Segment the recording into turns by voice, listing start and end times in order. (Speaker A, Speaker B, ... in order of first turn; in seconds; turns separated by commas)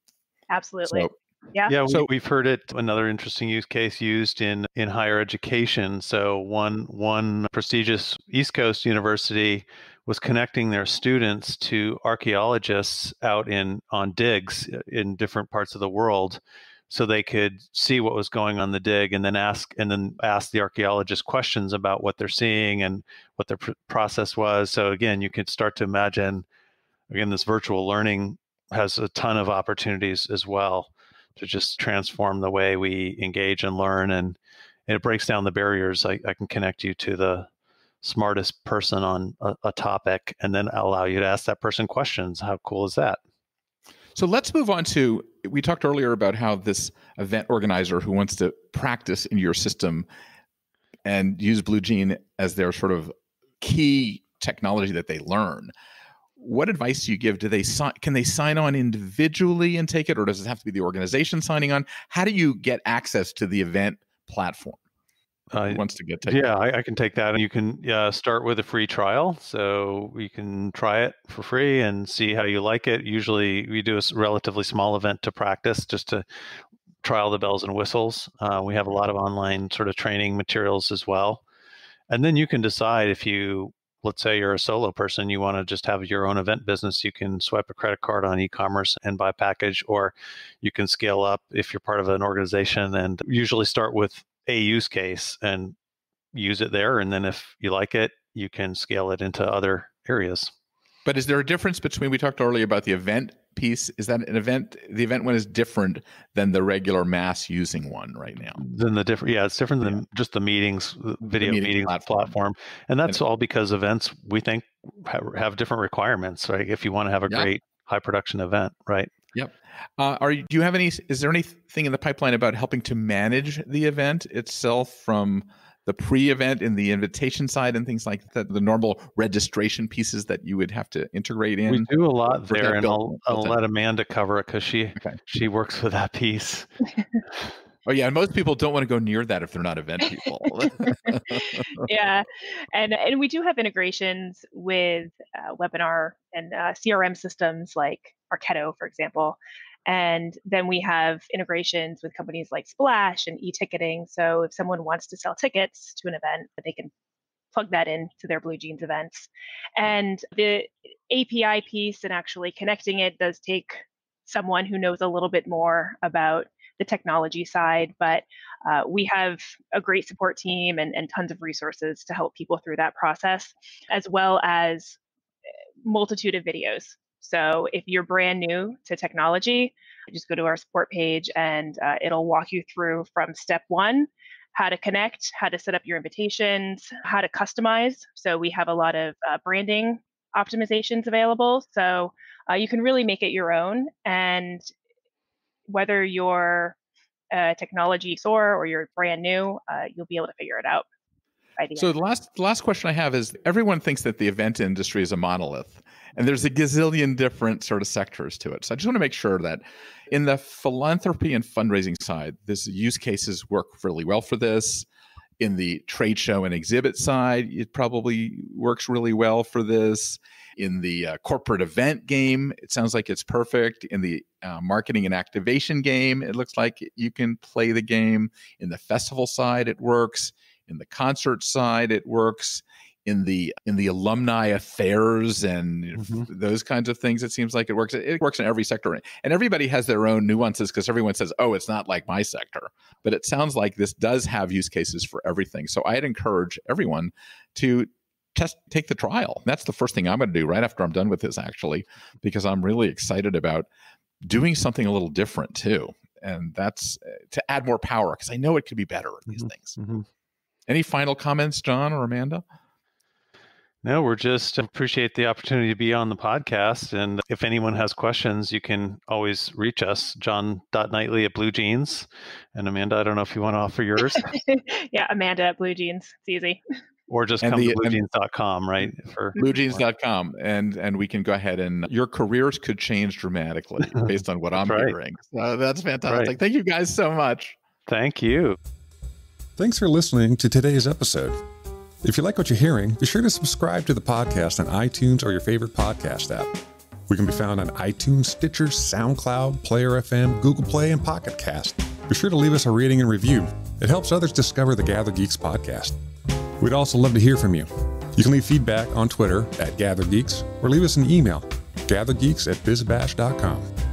Speaker A: 0.5-1.7, Speaker B: 0.8-1.1, Speaker C: 1.7-26.4, Speaker C: 27.1-37.5, Speaker C: 38.0-43.2, Speaker B: 44.1-50.1, Speaker B: 51.0-55.7, Speaker B: 56.4-64.8, Speaker C: 65.5-76.2, Speaker B: 65.7-66.4, Speaker C: 77.0-81.4, Speaker C: 82.1-95.7, Speaker C: 96.3-100.5, Speaker B: 101.0-108.6, Speaker C: 108.5-119.1, Speaker B: 111.2-112.3, Speaker B: 119.3-133.6, Speaker C: 131.7-136.7, Speaker B: 137.8-141.9, Speaker A: 141.1-156.9, Speaker A: 157.5-175.0, Speaker A: 175.8-194.7, Speaker A: 195.7-196.8, Speaker A: 197.3-200.8, Speaker A: 201.6-201.9, Speaker B: 201.8-214.8, Speaker B: 215.4-253.7, Speaker C: 236.0-236.3, Speaker B: 254.2-259.8, Speaker C: 259.3-260.1, Speaker B: 260.7-262.4, Speaker C: 263.8-274.3, Speaker A: 274.1-276.6, Speaker C: 277.1-279.8, Speaker B: 277.4-278.0, Speaker B: 279.4-287.6, Speaker C: 283.8-284.9, Speaker C: 286.1-286.3, Speaker C: 287.9-288.6, Speaker D: 289.6-291.4, Speaker D: 292.0-296.5, Speaker D: 297.1-306.0, Speaker D: 306.6-313.6